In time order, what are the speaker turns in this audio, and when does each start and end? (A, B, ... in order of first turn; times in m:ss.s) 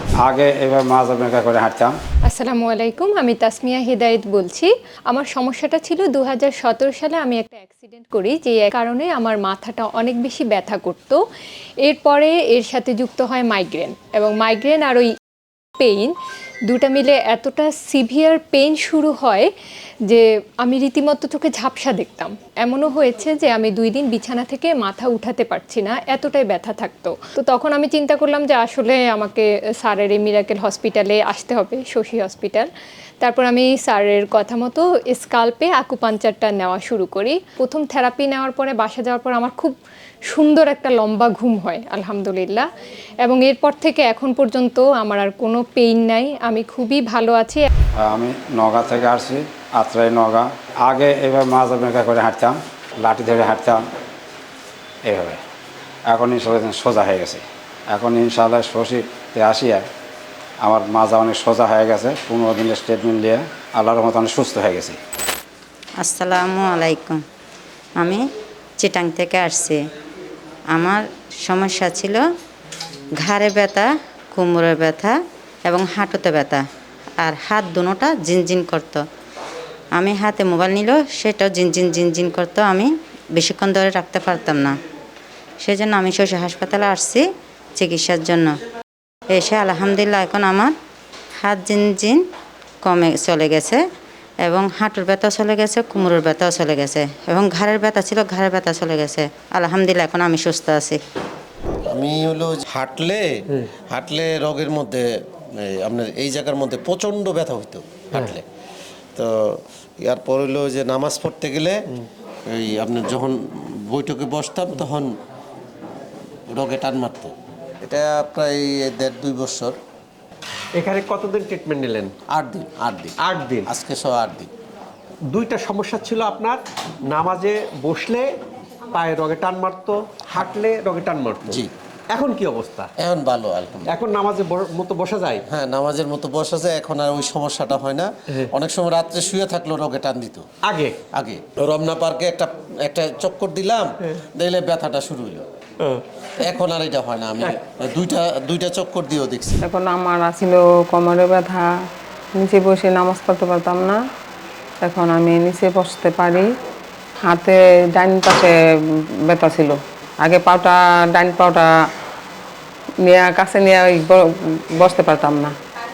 0:00.2-0:02.0 A
0:02.3-0:11.2 B
0:11.8-0:15.1 B
0:15.8-0:16.1 B
0:16.7-0:19.5 B
0:20.1-0:32.7 B
0:33.2-0:39.8 B
0:40.3-0:42.7 B
0:43.2-0:47.7 B
0:48.0-0:53.8 A
0:55.0-0:55.4 A
0:56.1-0:59.8 A
1:00.6-1:05.0 A
1:06.0-1:07.2 C
1:08.0-1:08.2 C
1:08.8-1:09.8 C
1:10.7-1:12.2 C
1:13.2-1:16.6 C
1:17.2-1:19.0 C
1:19.9-1:24.8 C
1:25.6-1:27.2 C
1:27.8-1:28.6 C
1:29.3-1:30.7 C
1:31.4-1:32.2 C
1:32.8-1:33.8 C
1:34.4-1:41.0 C
1:41.9-1:43.3 D
1:43.9-1:48.4 D
1:49.2-1:51.8 D
1:52.5-1:55.1 D
1:56.5-1:59.8 D
2:00.8-2:02.1 E
2:02.3-2:04.5 D
2:03.2-2:03.7 E
2:05.3-2:08.3 E
2:08.9-2:12.9 E
2:13.0-2:13.9 D
2:13.9-2:15.4 E
2:15.5-2:20.4 D
2:20.6-2:21.0 E
2:21.1-2:25.4 D
2:26.4-2:29.6 D
2:29.6-2:31.7 F
2:32.4-2:34.0 F
2:34.8-2:36.5 F
2:37.3-2:38.5 F
2:39.2-2:41.7 F
2:43.0-2:45.5 F